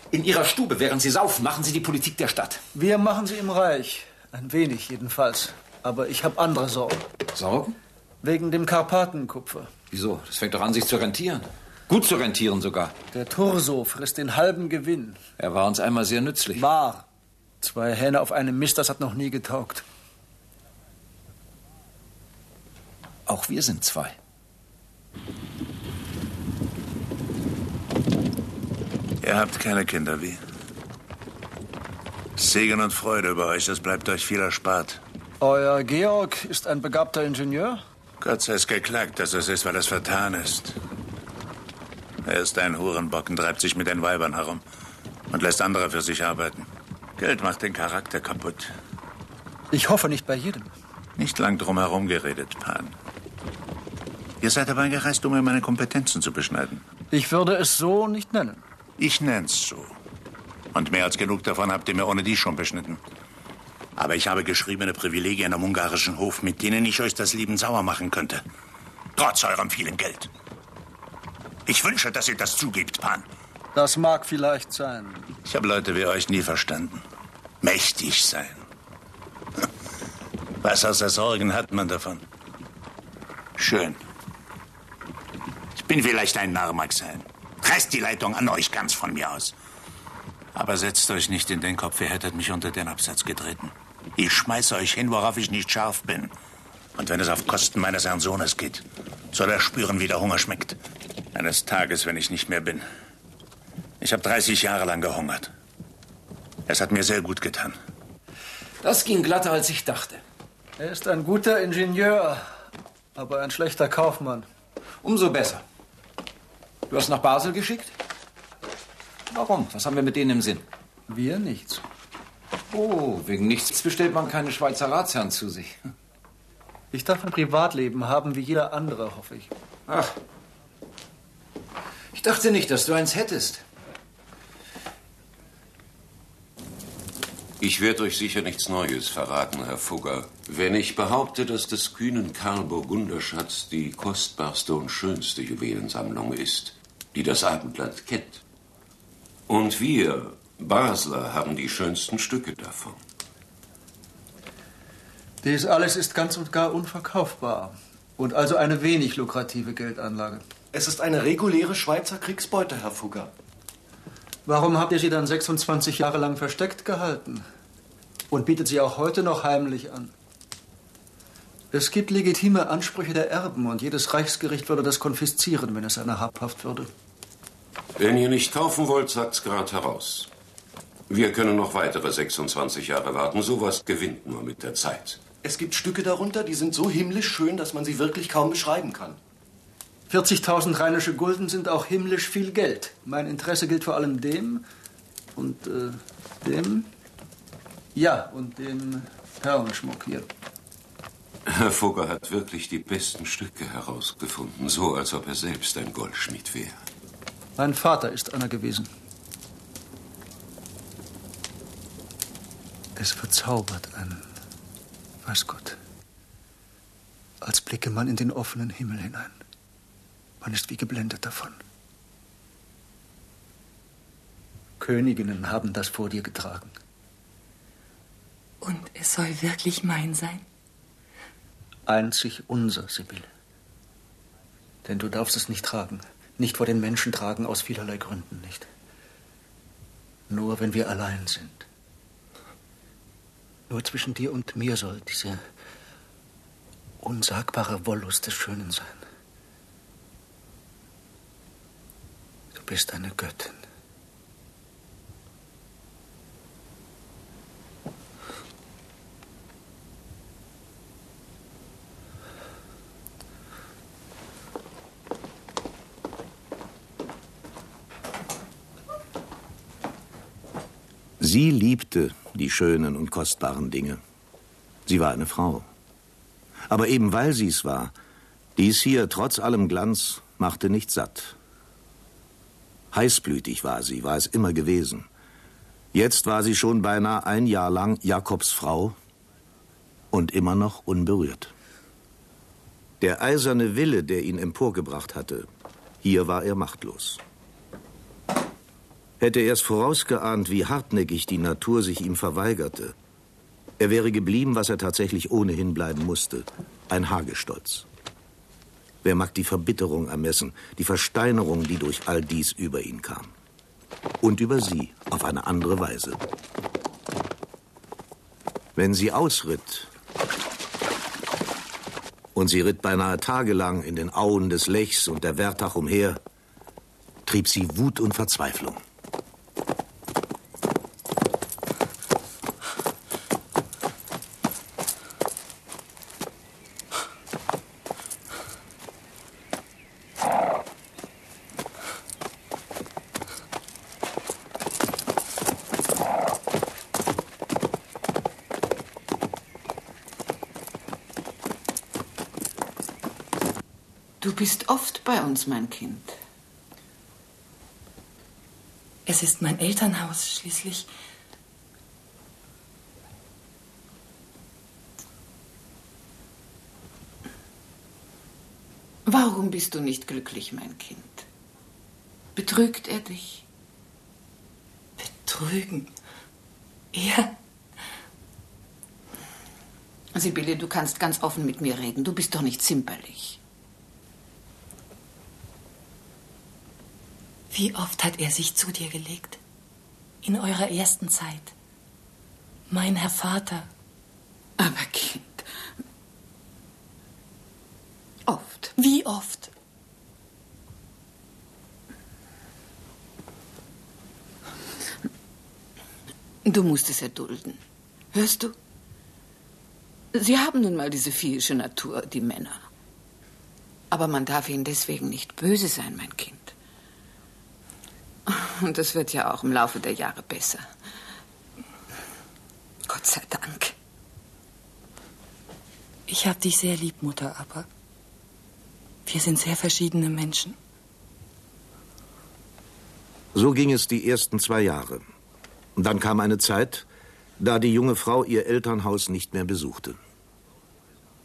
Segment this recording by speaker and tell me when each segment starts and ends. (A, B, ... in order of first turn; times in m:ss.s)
0:00.1-0:02.6 A
0:02.7-0:07.0 B
0:07.4-0:07.7 A
0:08.2-0:09.7 B
0:09.9-0:13.0 A
0:13.1-0:15.2 B
0:15.4-0:16.6 A
0:16.6-0:17.0 B
0:17.6-0:19.8 B
0:23.3-0:24.2 A
0:29.2-0:30.4 C
0:32.4-0:35.0 C
0:35.4-0:37.8 B
0:38.2-0:40.8 C
0:42.2-0:44.6 C
0:45.3-0:46.7 C
0:47.2-0:48.7 C
0:49.7-0:50.7 B
0:51.2-0:52.9 C
0:54.4-0:56.8 C
0:57.1-0:58.6 B
0:59.0-0:59.9 C
1:00.7-1:03.0 C
1:04.0-1:08.4 C
1:09.2-1:10.3 C
1:11.7-1:13.3 C
1:13.7-1:15.3 B
1:15.4-1:17.0 C
1:17.6-1:18.6 C
1:20.6-1:22.2 C
1:23.6-1:24.0 C
1:25.8-1:29.5 C
1:30.5-1:36.3 C
1:37.0-1:40.8 C
1:41.3-1:42.8 C
1:44.0-1:45.5 C
1:46.7-1:47.8 C
1:48.8-1:50.2 A
1:50.8-1:52.4 B
1:53.2-1:54.5 B
1:55.0-1:55.6 A
1:56.9-1:58.0 A
1:59.3-2:00.6 A
2:01.1-2:01.8 B
2:02.7-2:05.8 A
2:06.9-2:09.5 B
2:09.9-2:10.1 A
2:12.1-2:13.6 A
2:17.6-2:28.4 D
2:29.5-2:33.0 D
2:35.4-2:40.4 B
2:40.7-2:43.3 E
2:44.5-2:47.4 B
2:48.3-2:50.1 B
2:51.7-2:56.9 B
2:58.0-3:00.3 D
3:01.1-3:05.2 D
3:05.4-3:09.2 E
3:10.1-3:14.6 B
3:15.4-3:16.9 B
3:18.0-3:20.3 B
3:21.5-3:26.8 D
3:27.6-3:28.9 B
3:33.0-3:34.3 B
3:35.2-3:35.8 B
3:37.4-3:39.4 B
3:40.4-3:41.6 B
3:44.8-3:46.7 B
3:48.6-3:50.4 F
3:51.9-3:53.3 B
3:54.8-3:58.7 B
4:00.3-4:01.6 B
4:03.7-4:05.4 B
4:07.0-4:09.0 B
4:12.6-4:13.6 B
4:31.2-4:34.0 G
4:34.9-4:35.7 G
4:36.7-4:37.9 G
4:38.6-4:41.4 G
4:42.9-4:45.1 G
4:45.9-4:49.0 G
4:50.1-4:51.5 G
4:53.0-4:55.5 G
4:56.0-4:57.2 G
4:59.2-5:03.0 G
5:03.8-5:07.9 G
5:09.0-5:13.3 G
5:14.2-5:16.2 G
5:18.8-5:19.9 G
5:22.4-5:26.2 G
5:27.3-5:28.8 G
5:54.2-5:56.2 H
5:59.1-6:00.9 F
6:09.1-6:11.3 H
6:12.4-6:13.4 H
6:15.0-6:15.9 F
6:16.9-6:17.3 F
6:20.1-6:23.4 H
6:27.5-6:29.4 F
6:30.2-6:31.5 F
6:32.7-6:33.7 F
6:34.6-6:35.5 H
6:38.3-6:38.7 H
6:38.8-6:39.5 F
6:46.4-6:47.6 H
6:48.1-6:48.6 H
6:50.1-6:52.6 H
6:53.9-6:56.5 H
6:58.3-7:00.7 H
7:02.9-7:03.7 H
7:06.1-7:07.7 F
7:09.1-7:10.6 F
7:13.3-7:15.0 G
7:15.8-7:16.9 G
7:17.4-7:20.0 G